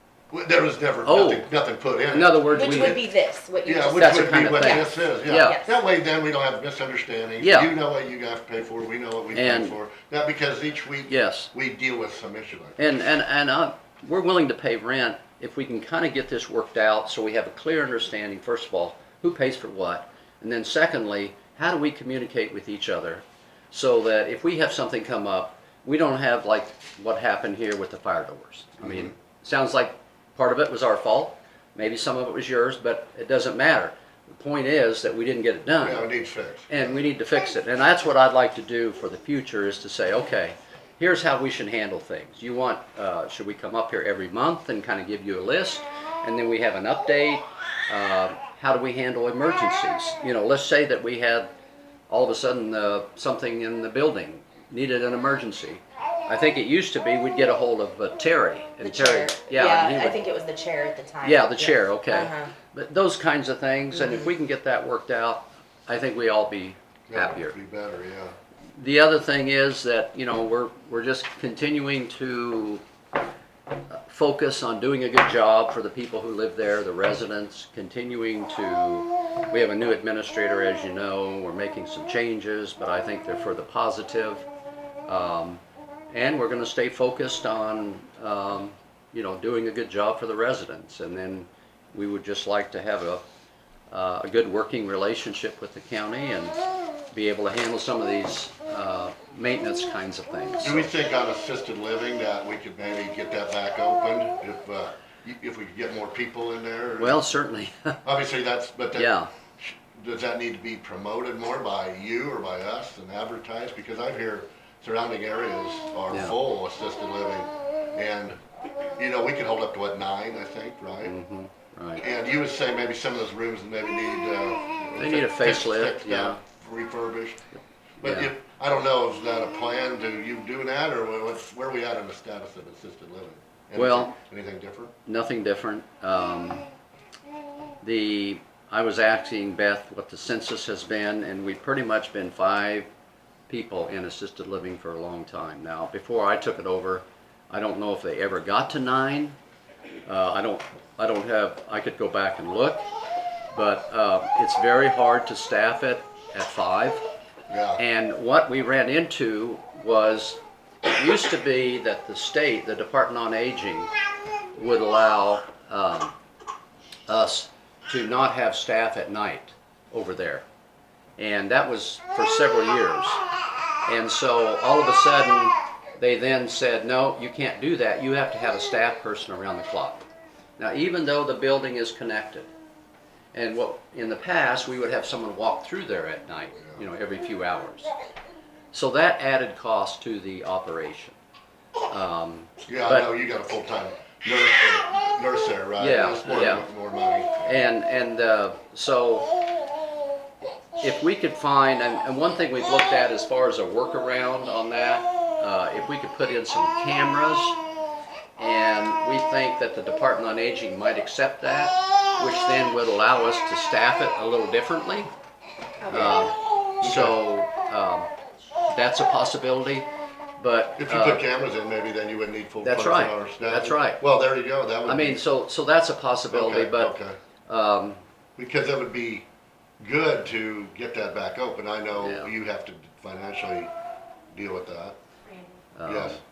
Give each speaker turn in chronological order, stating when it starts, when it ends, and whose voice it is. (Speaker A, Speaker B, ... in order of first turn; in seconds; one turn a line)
Speaker A: 0.3-3.0
Speaker B: 1.0-1.5
Speaker B: 2.1-3.0
Speaker C: 2.5-4.8
Speaker A: 3.6-12.8
Speaker B: 4.0-5.6
Speaker C: 5.4-5.8
Speaker B: 7.4-7.8
Speaker B: 9.3-9.8
Speaker B: 11.1-11.5
Speaker B: 12.8-36.1
Speaker A: 28.8-29.1
Speaker A: 35.8-37.0
Speaker B: 36.7-51.5
Speaker B: 52.1-60.2
Speaker C: 58.8-62.5
Speaker B: 61.2-67.5
Speaker A: 67.1-68.3
Speaker B: 68.8-72.8
Speaker B: 73.9-84.5
Speaker B: 85.0-93.2
Speaker B: 93.9-96.6
Speaker B: 97.1-100.9
Speaker A: 100.6-107.2
Speaker B: 107.0-108.0
Speaker A: 108.0-118.4
Speaker B: 108.9-109.3
Speaker B: 116.1-116.4
Speaker A: 119.0-121.2
Speaker B: 121.0-122.0
Speaker A: 122.0-127.4
Speaker B: 125.0-126.4
Speaker B: 127.5-128.3
Speaker A: 128.0-134.9
Speaker B: 133.7-134.1
Speaker B: 135.1-136.7
Speaker B: 137.8-142.9
Speaker B: 143.5-149.3
Speaker B: 150.0-152.8
Speaker B: 153.5-157.0
Speaker A: 157.5-157.8
Speaker B: 157.8-163.9
Speaker B: 164.5-166.1
Speaker B: 167.1-170.4
Speaker B: 171.2-173.2
Speaker B: 173.8-180.0
Speaker B: 180.6-182.5
Speaker B: 183.3-187.9
Speaker B: 188.7-191.2
Speaker B: 191.9-193.1
Speaker A: 192.7-197.6
Speaker B: 195.8-196.7
Speaker B: 197.4-199.3
Speaker B: 200.8-207.6
Speaker B: 208.4-215.1
Speaker C: 215.8-216.3
Speaker B: 215.9-218.1
Speaker A: 216.8-217.2
Speaker B: 218.7-219.9
Speaker B: 220.4-221.2
Speaker A: 220.8-225.2
Speaker B: 222.6-224.0
Speaker B: 224.8-226.9
Speaker A: 226.3-227.2
Speaker B: 227.5-228.0
Speaker A: 228.4-229.2
Speaker A: 229.8-233.7
Speaker B: 232.0-232.3
Speaker A: 234.3-235.0
Speaker B: 235.7-236.2
Speaker A: 235.8-236.2